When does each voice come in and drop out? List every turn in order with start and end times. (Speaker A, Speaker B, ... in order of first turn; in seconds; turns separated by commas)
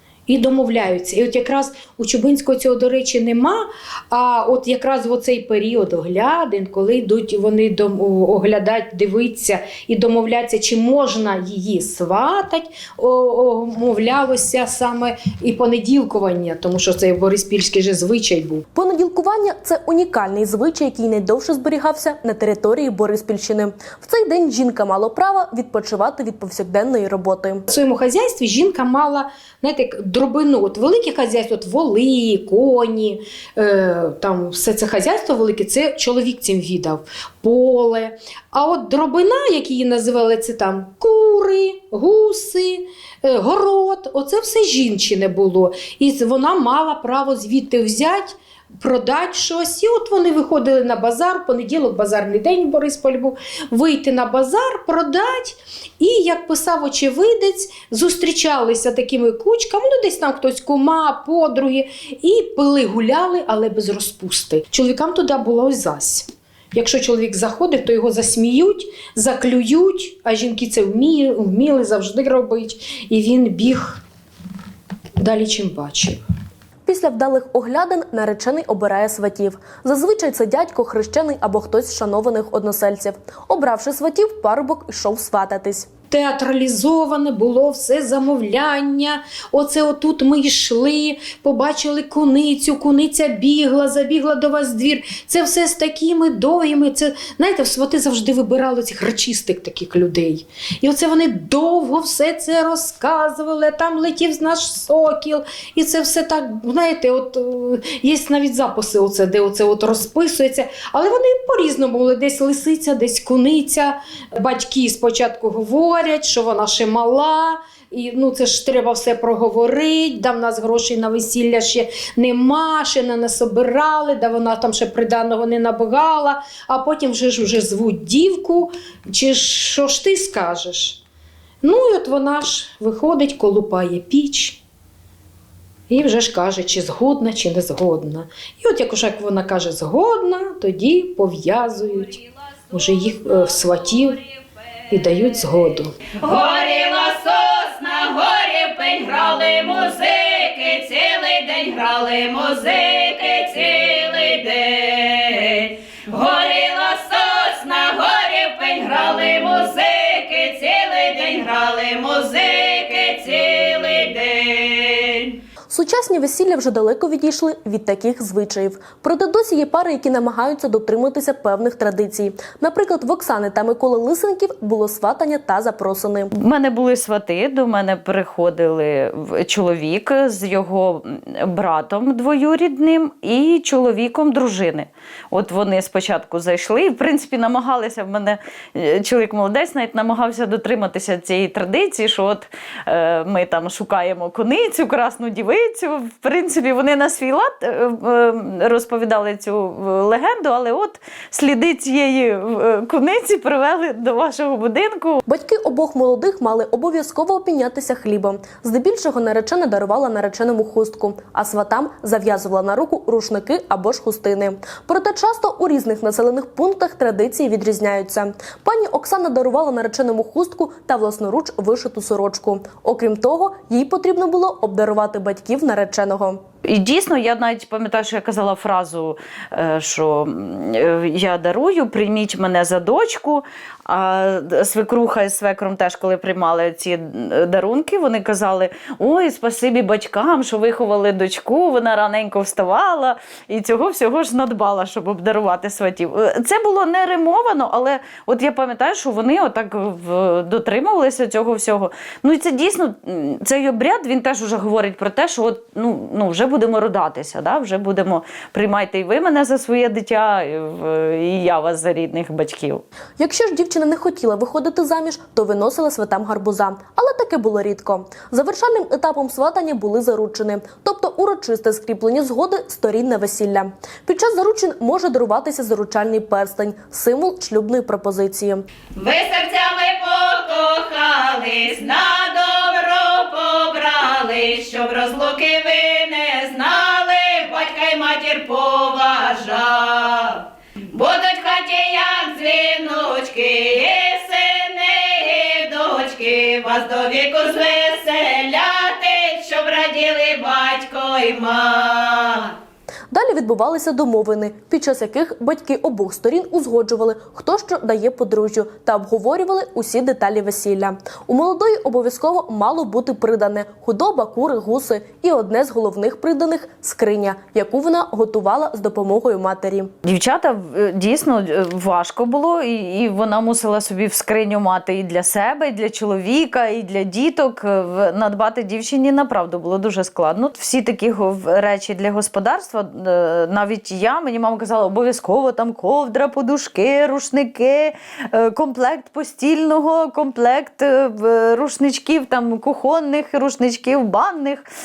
Speaker A: 0.3-18.7, Speaker B: 18.8-27.7, Speaker A: 27.7-74.0, Speaker A: 75.2-76.2, Speaker B: 76.9-85.9, Speaker A: 86.1-131.0, Speaker A: 131.6-134.6, Speaker A: 135.9-142.2, Speaker C: 142.7-143.4, Speaker A: 142.7-144.2, Speaker C: 143.9-144.2, Speaker A: 144.9-145.9, Speaker C: 146.1-165.3, Speaker B: 165.7-176.3, Speaker D: 176.3-205.2, Speaker B: 205.3-226.4, Speaker D: 226.7-262.8, Speaker B: 263.2-278.6, Speaker C: 278.9-302.5, Speaker B: 303.1-319.9, Speaker D: 320.0-344.6